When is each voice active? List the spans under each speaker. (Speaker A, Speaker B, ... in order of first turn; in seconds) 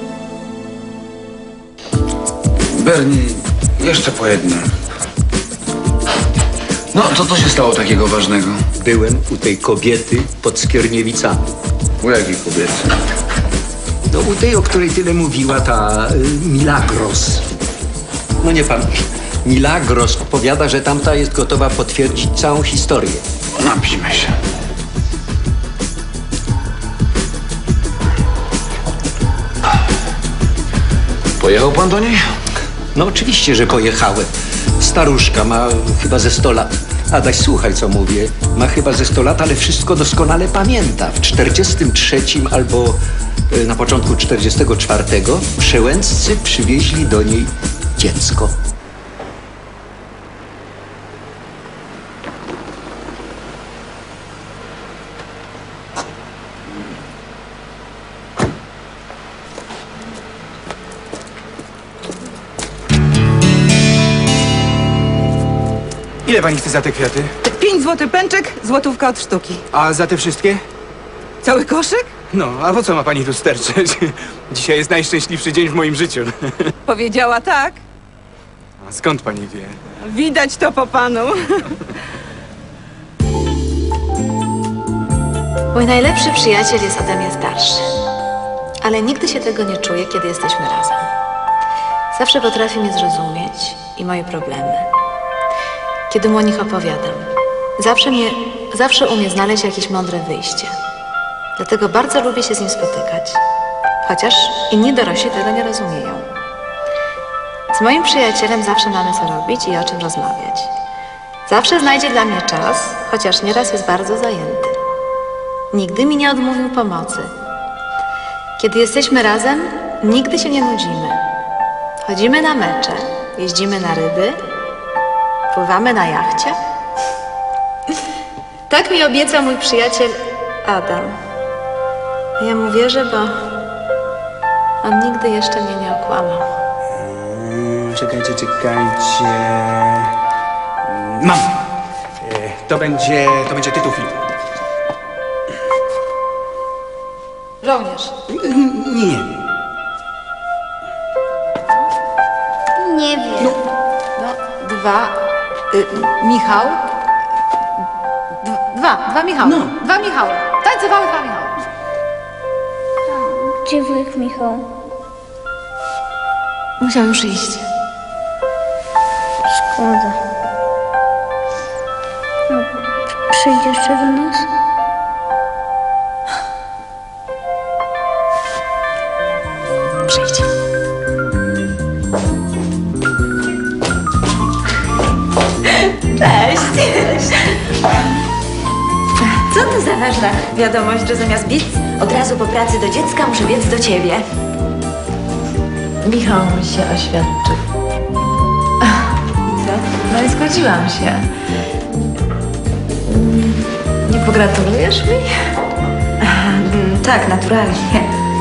Speaker A: 2.7-4.7, 6.9-8.6, 12.0-12.9, 23.6-24.3, 31.4-32.2, 137.3-137.8
Speaker B: 8.8-11.5, 14.1-17.4, 18.4-18.9, 19.4-23.2, 33.0-43.0, 43.5-48.5
Speaker C: 66.2-67.3, 69.7-70.6, 72.3-76.7, 78.8-79.8, 137.8-140.0, 141.0-141.4, 142.2-144.2, 148.3-149.4
Speaker D: 67.4-69.6, 71.4-72.1, 76.9-77.8, 80.0-81.6
Speaker E: 85.7-87.9, 88.8-91.1, 92.1-94.9, 96.1-100.7, 101.6-103.4, 104.0-106.3, 107.7-110.7, 111.5-114.8, 115.7-117.3, 118.6-121.2, 122.0-124.4, 125.5-126.6, 128.7-131.2, 132.4-133.4, 134.8-136.4, 147.6-148.1, 154.2-155.2, 155.7-156.8, 158.4-161.5, 166.8-167.6, 196.0-197.6, 198.8-201.3, 203.1-205.3
Speaker F: 152.8-153.6, 163.1-164.7, 169.5-170.2, 172.5-172.8, 173.3-174.5
Speaker G: 186.2-187.3, 189.5-194.2, 206.6-208.1